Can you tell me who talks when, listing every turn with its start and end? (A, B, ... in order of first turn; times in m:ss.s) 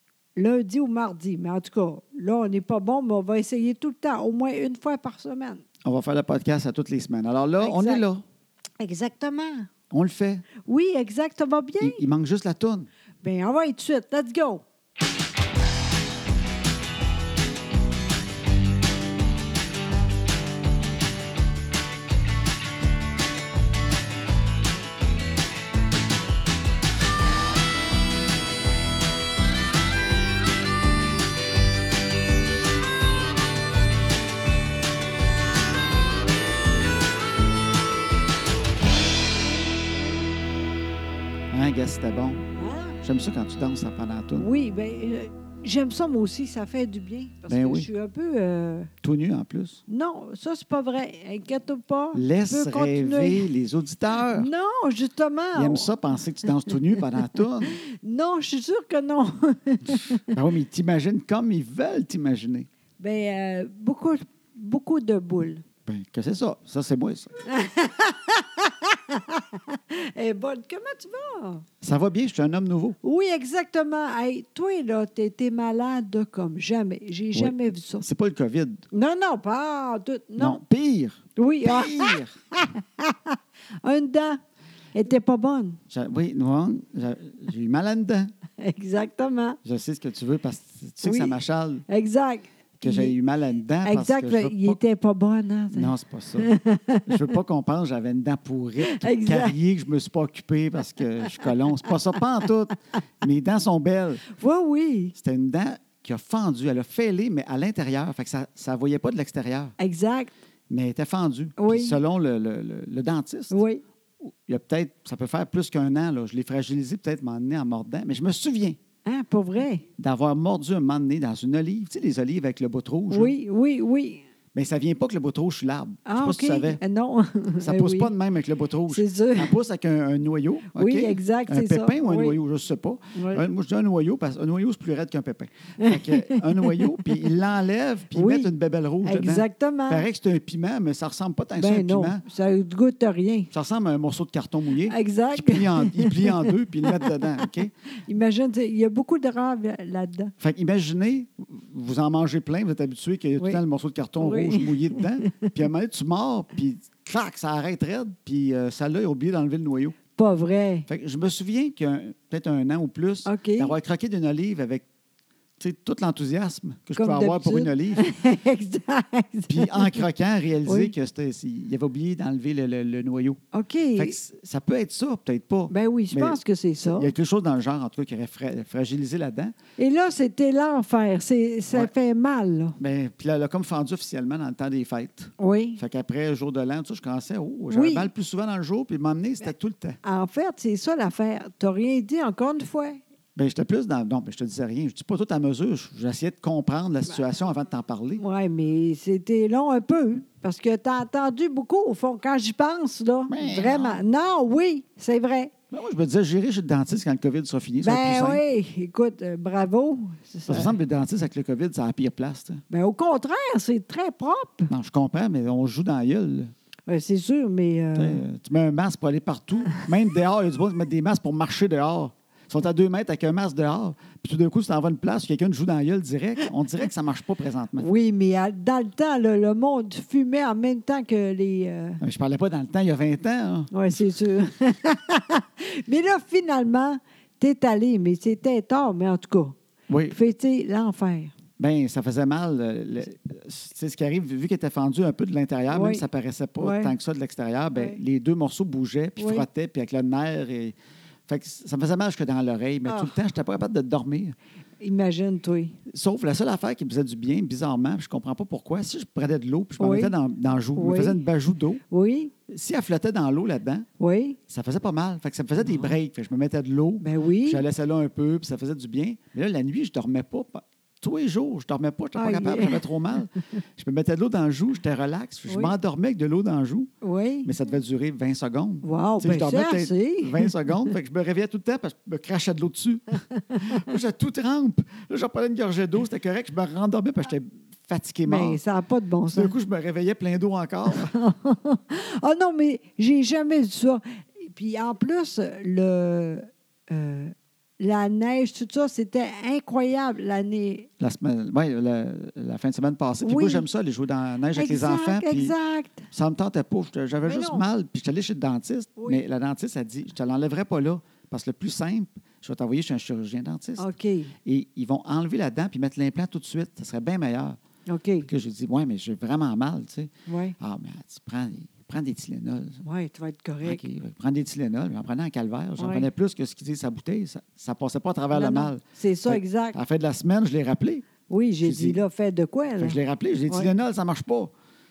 0:00.4-0:05.6 A
0:05.8-0:08.2 B
0:07.6-0:08.0 A
0:08.8-0:09.7 A
0:09.9-0:10.5 B
0:10.6-0:12.0 A
0:11.8-0:12.9 B
0:13.2-0:14.6 A
0:41.5-0:42.4 B
0:42.5-0:43.0 A
0:43.0-0:44.5 B
0:44.4-0:48.9 A
0:47.5-0:47.9 B
0:49.0-0:49.8 B
0:49.9-0:53.5 A
0:52.2-0:54.5 B
0:54.3-0:55.9 A
0:55.6-0:57.8 B
0:56.7-1:00.2 A
1:00.3-1:02.7 B
1:03.0-1:05.6 A
1:05.9-1:07.3 B
1:07.4-1:11.7 A
1:11.8-1:13.0 B
1:13.0-1:18.0 A
1:17.3-1:18.8 B
1:18.9-1:20.6 A
1:20.4-1:22.4 B
1:21.4-1:24.4 A
1:24.9-1:25.8 A
1:25.9-1:28.3 B
1:28.6-1:29.6 A
1:29.6-1:31.8 B
1:31.0-1:31.4 A
1:31.9-1:33.2 A
1:32.8-1:34.8 B
1:33.8-1:37.4 A
1:35.7-1:36.5 B
1:37.1-1:44.2 B
1:38.8-1:39.6 A
1:44.3-1:45.2 A
1:45.2-1:49.8 B
1:49.8-1:50.3 A
1:50.7-1:53.6 B
1:51.6-1:52.0 A
1:53.5-1:53.8 A
1:54.2-1:58.8 B
1:59.0-1:59.8 A
2:00.0-2:03.4 B
2:03.1-2:04.3 A
2:04.5-2:06.8 B
2:06.0-2:08.1 A
2:07.6-2:22.2 B
2:08.9-2:09.6 A
2:10.8-2:12.4 A
2:13.1-2:13.5 A
2:15.8-2:17.3 A
2:18.1-2:18.5 A
2:19.0-2:20.1 A
2:21.6-2:23.5 A
2:23.5-2:27.7 B
2:24.8-2:27.5 A
2:28.1-2:30.3 A
2:30.4-2:40.0 B
2:34.2-2:35.5 A
2:40.2-2:40.9 A
2:40.9-2:44.8 B
2:43.2-2:43.8 A
2:45.6-2:48.1 B
2:47.0-2:50.1 A
2:49.5-2:53.4 B
2:50.6-2:50.9 A
2:53.5-2:54.2 A
2:54.0-2:59.6 B
2:55.7-2:57.1 A
2:59.8-3:02.8 A
3:02.8-3:10.0 B
3:05.4-3:05.8 A
3:07.7-3:08.1 A
3:10.0-3:13.0 A
3:13.4-3:18.2 B
3:18.2-3:25.5 A
3:23.3-3:24.0 B
3:25.7-3:28.4 B
3:27.8-3:30.7 A
3:30.5-3:32.6 B
3:32.7-3:34.7 A
3:34.7-3:36.5 B
3:36.9-3:38.2 A
3:38.0-3:47.9 B
3:47.8-3:52.0 A
3:52.0-3:53.7 B
3:53.7-3:59.6 A
3:59.9-4:00.2 B
4:00.1-4:01.3 A
4:01.6-4:10.8 B
4:05.7-4:06.1 A
4:06.6-4:07.0 A
4:07.7-4:08.0 A
4:09.2-4:09.5 A
4:11.3-4:14.4 B
4:12.9-4:13.2 A
4:14.8-4:15.8 A
4:15.9-4:21.8 B
4:19.8-4:20.2 A
4:20.8-4:21.3 A
4:21.9-4:22.3 A
4:22.5-4:23.9 B
4:24.0-4:24.4 A
4:24.5-4:36.9 B
4:25.6-4:26.0 A
4:27.0-4:27.6 A
4:32.2-4:33.2 A
4:35.5-4:35.8 A
4:37.0-4:37.5 A
4:37.4-4:48.6 B
4:38.8-4:40.6 A
4:43.5-4:43.8 A
4:48.2-4:49.5 A
4:49.3-4:51.2 B
4:50.9-5:00.9 A
5:01.0-5:05.6 B
5:03.2-5:03.7 A
5:04.5-5:06.1 A
5:06.1-5:13.9 B
5:07.2-5:07.6 A
5:09.0-5:09.2 A
5:13.8-5:14.3 A
5:14.4-5:17.6 B
5:17.9-5:18.3 A
5:18.2-5:22.8 B
5:20.3-5:20.6 A
5:22.8-5:23.8 A
5:23.6-5:31.1 B
5:25.8-5:26.1 A
5:28.3-5:29.8 A
5:31.3-5:33.7 A
5:31.6-5:32.0 B
5:32.8-5:34.5 B